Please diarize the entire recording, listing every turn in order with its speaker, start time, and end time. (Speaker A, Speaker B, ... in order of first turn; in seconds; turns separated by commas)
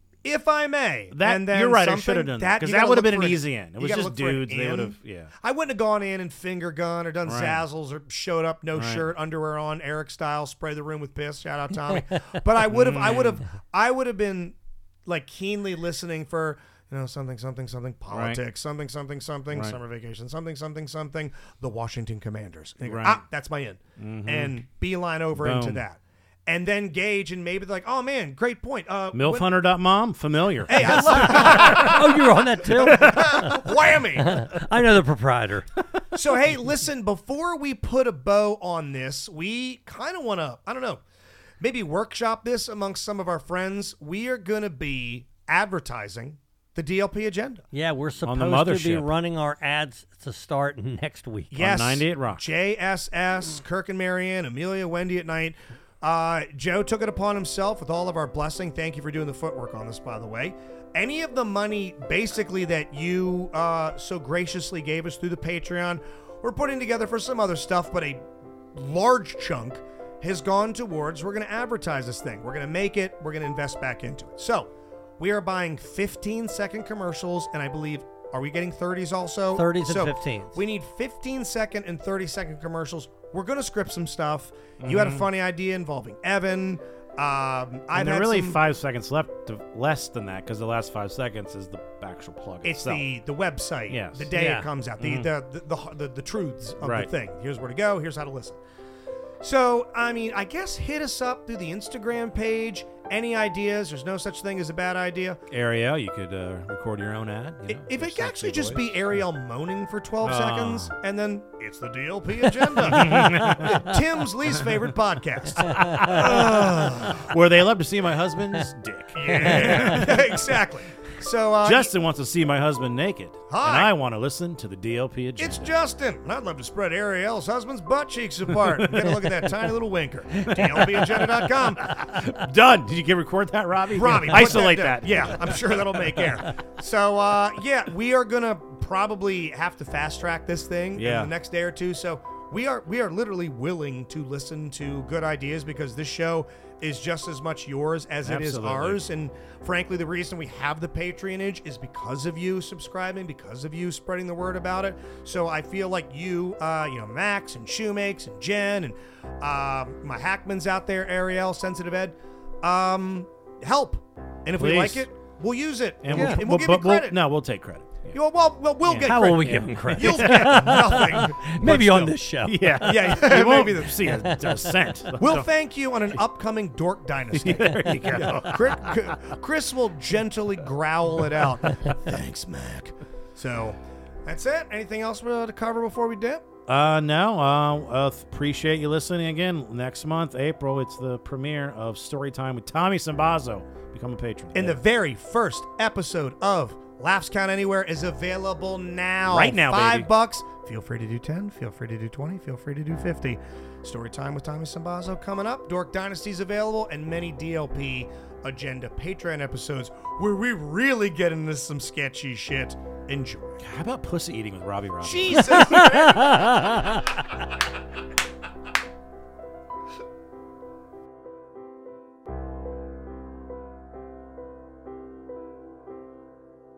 Speaker A: 0.2-29.5, Speaker B: 1.1-5.3, Speaker B: 7.2-7.6, Speaker B: 8.8-9.1, Speaker B: 12.7-13.4, Speaker B: 18.1-18.4, Speaker B: 19.5-19.8, Speaker B: 22.8-23.2, Speaker B: 24.0-24.5, Speaker B: 25.4-25.8, Speaker B: 29.1-32.0, Speaker A: 30.7-34.5, Speaker C: 30.8-35.7, Speaker B: 33.0-33.4, Speaker A: 36.1-41.0, Speaker A: 41.6-47.6, Speaker C: 47.7-51.5, Speaker B: 48.2-49.1, Speaker A: 51.5-88.6, Speaker B: 51.5-52.4, Speaker C: 79.5-80.6, Speaker B: 84.8-85.2, Speaker B: 87.9-93.1, Speaker A: 92.6-98.6, Speaker B: 93.9-94.3, Speaker C: 94.3-94.7, Speaker B: 95.0-95.3, Speaker B: 96.8-97.1, Speaker A: 99.4-105.4, Speaker B: 105.5-109.0, Speaker A: 107.7-117.3, Speaker B: 110.2-110.9, Speaker B: 112.8-113.9, Speaker C: 113.0-113.7, Speaker C: 115.6-116.2, Speaker B: 115.7-120.5, Speaker A: 119.1-121.9, Speaker C: 119.3-119.9, Speaker B: 121.6-125.7, Speaker A: 123.5-123.9, Speaker A: 125.4-132.0, Speaker B: 128.8-129.4, Speaker B: 130.4-136.3, Speaker A: 133.9-167.2, Speaker B: 140.9-141.3, Speaker B: 148.2-149.0, Speaker B: 164.6-165.1, Speaker B: 166.0-168.1, Speaker C: 166.1-166.4, Speaker A: 168.1-172.1, Speaker B: 168.8-171.0, Speaker C: 169.0-173.3, Speaker B: 172.4-175.5, Speaker A: 172.8-174.2, Speaker C: 174.1-174.4, Speaker A: 175.2-186.4, Speaker B: 177.3-179.2, Speaker B: 186.7-194.8, Speaker A: 194.5-213.6, Speaker B: 199.2-200.1, Speaker B: 213.6-216.4, Speaker A: 215.0-217.0, Speaker C: 215.6-217.0